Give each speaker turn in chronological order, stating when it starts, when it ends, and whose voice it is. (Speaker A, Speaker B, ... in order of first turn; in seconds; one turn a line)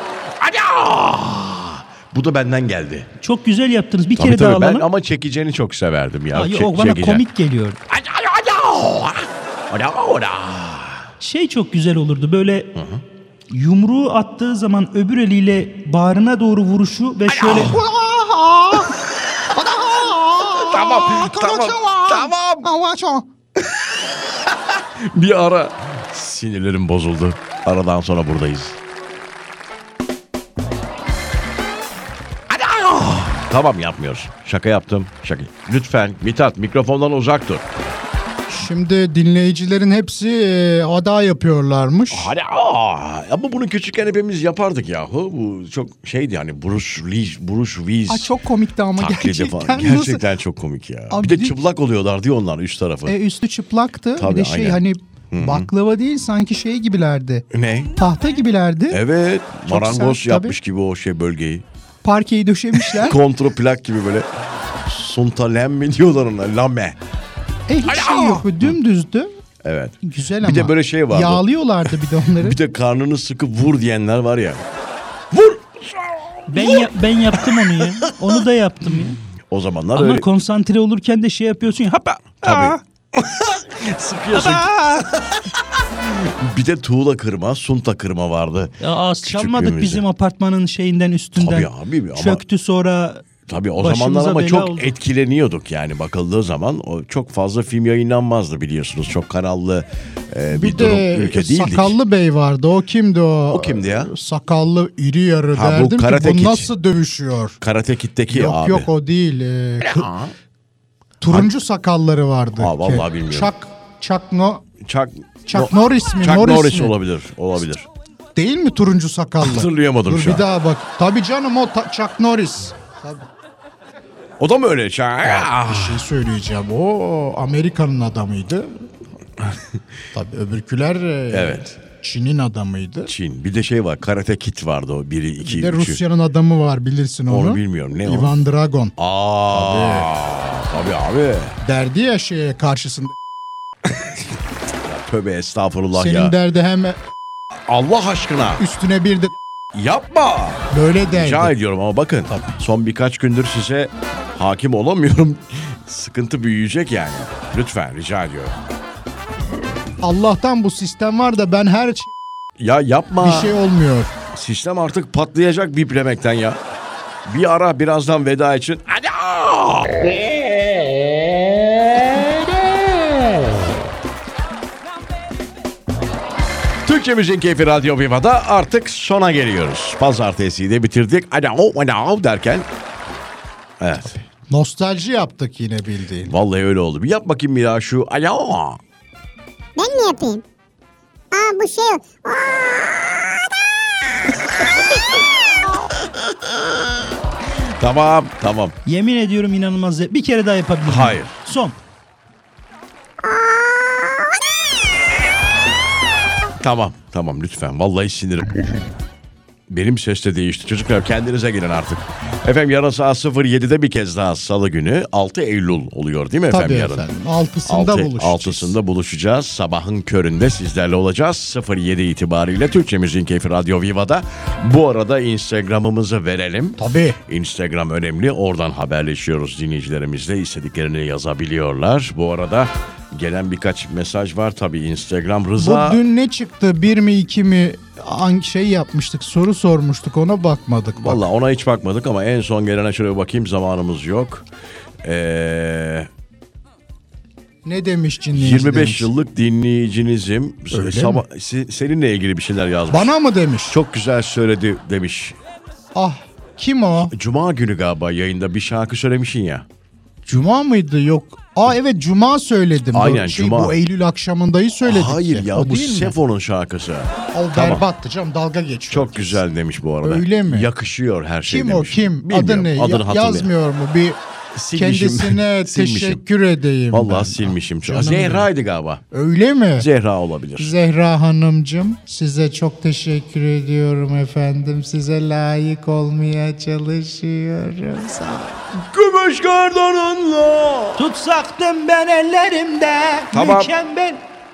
Speaker A: 0.4-3.1
Speaker B: 3.2-4.9
Speaker A: 4.2-7.2
Speaker B: 6.3-7.8
Speaker A: 7.9-11.1
Speaker B: 11.2-12.7
Speaker A: 12.8-13.0
Speaker B: 13.5-17.8
Speaker A: 17.4-17.8
Speaker C: 17.6-18.9
Speaker C: 19.5-23.3
Speaker A: 20.5-22.7
Speaker A: 24.0-28.8
Speaker A: 32.5-37.7
Speaker C: 38.5-42.3
Speaker A: 42.1-48.4
Speaker C: 48.1-50.3
Speaker A: 49.0-53.2
Speaker C: 51.1-51.5
Speaker C: 53.1-57.5
Speaker A: 54.2-55.7
Speaker A: 57.5-57.9
Speaker C: 58.0-59.0
Speaker A: 58.9-61.6
Speaker C: 59.7-60.6
Speaker C: 62.0-63.2
Speaker A: 62.8-64.3
Speaker A: 64.8-67.0
Speaker C: 67.7-69.3
Speaker A: 67.8-68.7
Speaker A: 69.6-71.5
Speaker C: 70.0-72.6
Speaker A: 72.4-74.7
Speaker A: 75.3-76.9
Speaker B: 76.5-79.2
Speaker A: 77.4-78.4
Speaker A: 79.5-80.3
Speaker B: 80.0-82.8
Speaker A: 82.4-90.0
Speaker B: 84.3-85.0
Speaker B: 88.8-94.9
Speaker A: 91.4-92.4
Speaker A: 93.5-102.0
Speaker C: 100.5-107.6
Speaker A: 103.5-104.1
Speaker A: 105.5-106.7
Speaker A: 107.6-108.9
Speaker C: 108.3-110.1
Speaker A: 109.8-110.3
Speaker C: 111.2-114.7
Speaker A: 112.6-113.5
Speaker A: 114.8-117.9
Speaker C: 115.5-116.9
Speaker C: 118.3-123.2
Speaker A: 119.4-120.5
Speaker A: 124.4-126.1
Speaker C: 125.2-128.9
Speaker A: 129.4-129.7
Speaker C: 130.1-133.1
Speaker A: 131.3-131.8
Speaker A: 133.1-136.0
Speaker C: 135.4-138.9
Speaker A: 137.3-138.4
Speaker A: 139.0-141.6
Speaker C: 139.5-140.1
Speaker C: 141.6-143.2
Speaker A: 144.8-146.3
Speaker C: 145.9-147.0
Speaker A: 147.7-148.6
Speaker C: 148.6-149.3
Speaker A: 149.7-158.6
Speaker C: 150.7-151.5
Speaker C: 152.3-152.6
Speaker C: 160.0-162.1
Speaker A: 162.6-163.6
Speaker C: 163.2-164.2
Speaker A: 164.3-166.6
Speaker A: 167.2-173.7
Speaker A: 176.8-182.7
Speaker A: 183.8-184.2
Speaker C: 184.5-186.3
Speaker A: 186.3-188.8
Speaker D: 189.8-190.4
Speaker D: 191.3-193.0
Speaker A: 197.6-198.8
Speaker B: 198.8-201.8
Speaker A: 200.8-201.4
Speaker A: 206.6-208.8
Speaker A: 209.7-217.1
Speaker C: 216.5-218.8
Speaker A: 217.7-236.0
Speaker C: 226.8-227.2
Speaker C: 235.6-241.2
Speaker A: 241.0-244.5
Speaker A: 245.0-246.1
Speaker C: 247.7-249.1
Speaker A: 248.3-253.1
Speaker C: 250.7-251.2
Speaker C: 252.9-253.8
Speaker A: 253.7-255.4
Speaker C: 255.9-257.1
Speaker A: 257.1-259.7
Speaker C: 260.2-266.1
Speaker A: 262.9-263.8
Speaker A: 264.8-267.8
Speaker C: 267.3-269.4
Speaker A: 268.9-273.5
Speaker C: 270.0-270.7
Speaker C: 271.5-274.2
Speaker A: 274.6-276.2
Speaker C: 274.7-278.5
Speaker A: 276.9-279.0
Speaker C: 279.1-279.9
Speaker A: 279.8-280.7
Speaker C: 280.6-288.7
Speaker A: 288.9-291.0
Speaker B: 291.0-294.2
Speaker A: 293.3-293.7